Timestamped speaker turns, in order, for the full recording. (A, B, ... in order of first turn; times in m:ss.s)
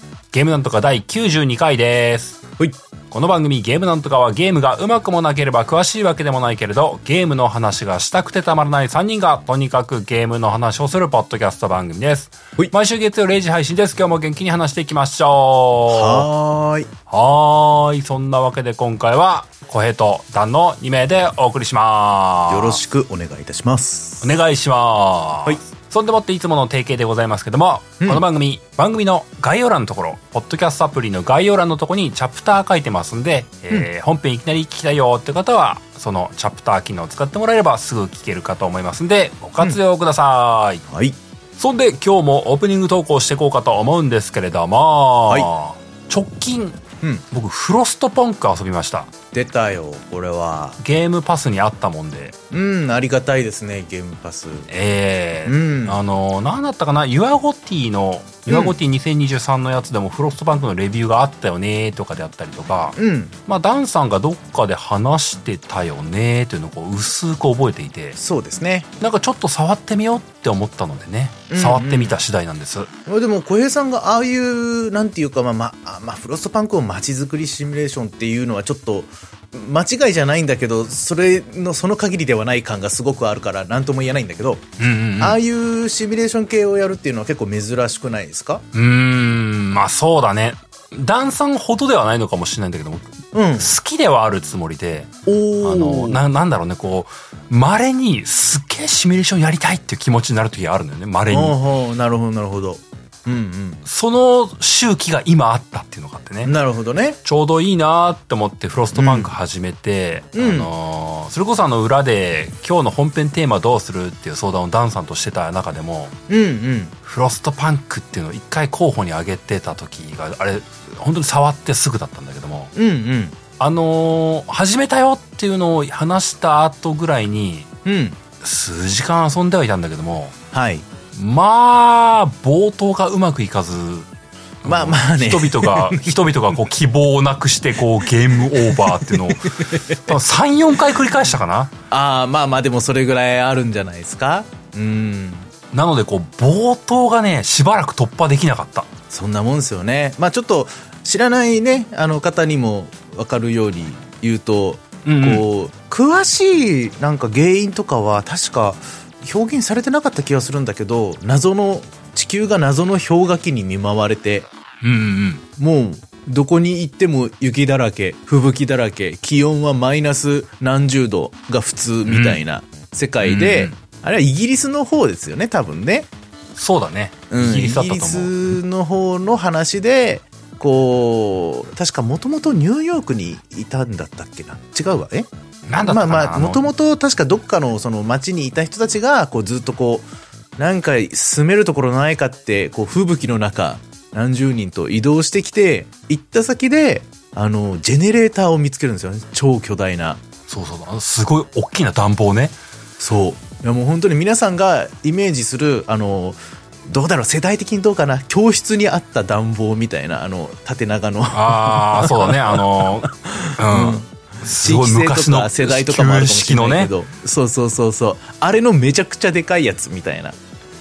0:00.3-0:02.4 A
0:03.1-0:16.3 A
0:15.9-0:16.9 B
0:17.1-0:22.8 A
0:22.5-0:24.3 B
0:24.2-0:40.8 A
0:40.9-0:41.2 B
0:41.6-0:49.1 A
0:49.3-0:50.8 B
0:50.8-0:52.3 A
0:52.5-0:54.7 B
0:54.7-1:08.2 A
0:55.4-0:56.0 B
0:58.5-0:58.7 B
1:03.0-1:03.3 B
1:08.2-1:08.9 B
1:09.0-1:12.9 A
1:11.5-1:12.2 B
1:13.0-1:28.6 B
1:24.8-1:25.4 A
1:28.7-1:35.1 A
1:33.3-1:33.7 B
1:35.2-1:36.2 B
1:35.6-1:41.6 A
1:41.3-1:43.8 B
1:43.8-1:46.5 A
1:46.4-1:47.2 B
1:47.2-1:56.1 A
1:48.9-1:49.3 B
1:50.3-1:50.7 B
1:56.3-1:56.9 B
1:57.0-2:02.7 A
2:02.7-2:03.4 B
2:03.6-2:07.7 A
2:07.8-2:08.2 B
2:08.4-2:10.3 A
2:10.5-2:10.8 B
2:11.1-2:14.1 A
2:14.6-2:21.7 A
2:14.6-2:16.1 B
2:18.6-2:20.1 B
2:21.9-2:25.5 B
2:25.7-2:28.9 A
2:29.1-2:44.5 B
2:35.0-2:35.4 A
2:44.8-2:45.4 A
2:45.6-2:56.1 B
2:52.1-2:52.4 A
2:53.2-2:53.8 A
2:56.6-2:58.5 A
2:57.3-3:05.3 B
3:05.7-3:06.7 A
3:05.8-3:10.1 B
3:10.6-3:20.2 B
3:20.5-3:22.6 A
3:23.0-3:40.4 B
3:31.3-3:36.9 A